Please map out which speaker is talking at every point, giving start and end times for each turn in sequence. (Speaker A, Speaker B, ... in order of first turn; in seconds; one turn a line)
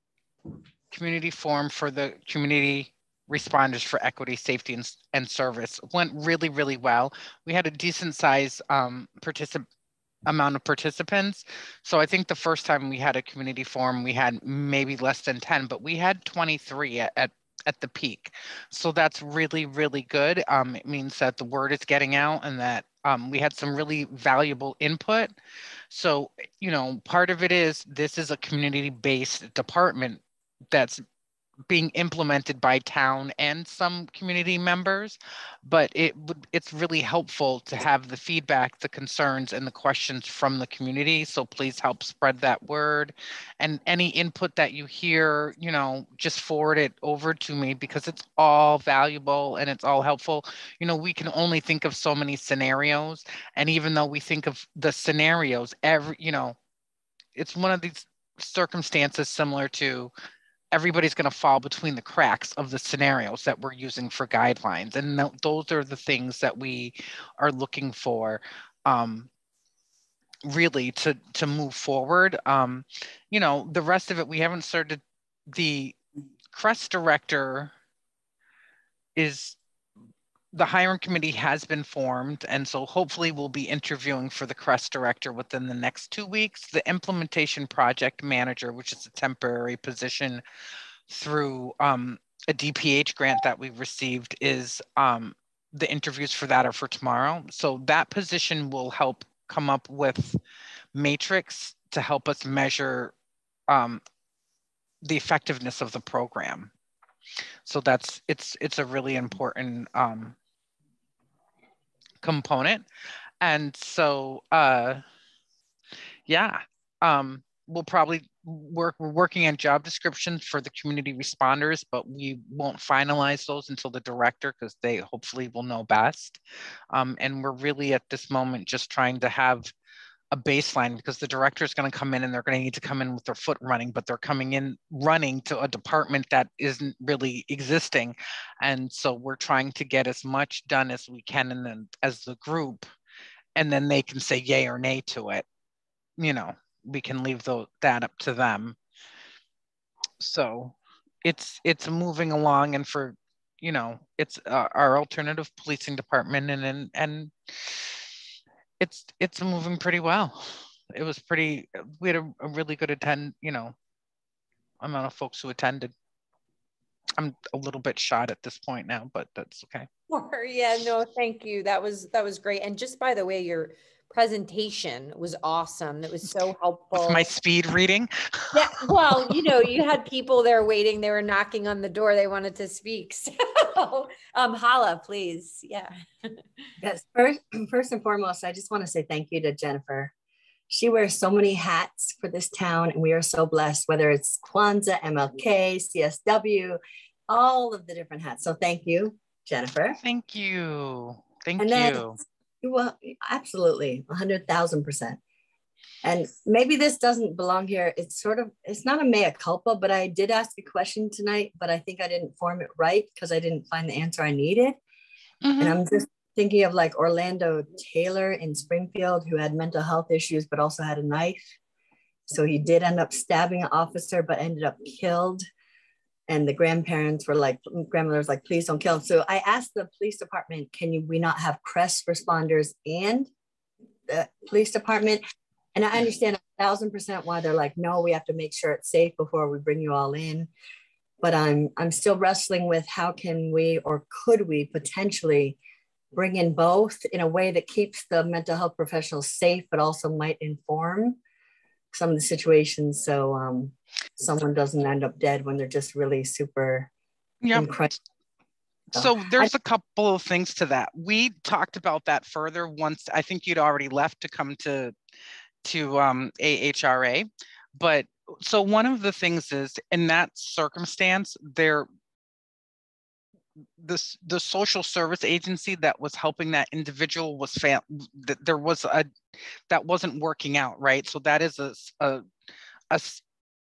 Speaker A: 0.9-9.7
Speaker A: 10.3-25.3
Speaker A: 25.9-31.0
Speaker A: 31.7-56.5
Speaker A: 57.4-60.1
Speaker A: 60.7-69.3
Speaker A: 70.4-75.0
Speaker A: 75.5-76.0
Speaker A: 76.5-77.7
Speaker A: 79.2-79.6
Speaker A: 80.5-90.4
Speaker A: 91.1-100.4
Speaker A: 100.9-103.1
Speaker A: 103.7-104.0
Speaker A: 105.0-106.7
Speaker A: 107.7-110.3
Speaker A: 112.2-112.8
Speaker A: 113.4-115.0
Speaker A: 116.3-126.4
Speaker A: 126.9-129.7
Speaker A: 130.3-142.9
Speaker A: 143.6-145.4
Speaker A: 146.2-148.8
Speaker A: 150.2-158.0
Speaker A: 158.8-163.7
Speaker A: 164.8-165.9
Speaker A: 167.2-169.9
Speaker B: 170.1-177.3
Speaker A: 176.9-178.6
Speaker B: 178.5-186.3
Speaker C: 186.8-190.1
Speaker C: 190.7-200.0
Speaker A: 200.0-202.2
Speaker C: 201.6-202.1
Speaker C: 202.6-205.2
Speaker C: 206.0-214.8
Speaker A: 215.4-215.8
Speaker C: 215.6-221.5
Speaker C: 222.3-225.4
Speaker C: 226.3-233.3
Speaker C: 234.1-235.2
Speaker C: 235.7-240.5
Speaker C: 241.2-245.6
Speaker C: 246.1-251.2
Speaker C: 251.9-256.9
Speaker A: 257.4-257.8
Speaker C: 257.5-257.9
Speaker C: 258.9-259.5
Speaker A: 258.9-264.9
Speaker A: 265.6-271.9
Speaker A: 273.8-279.1
Speaker A: 279.7-282.2
Speaker A: 282.9-283.2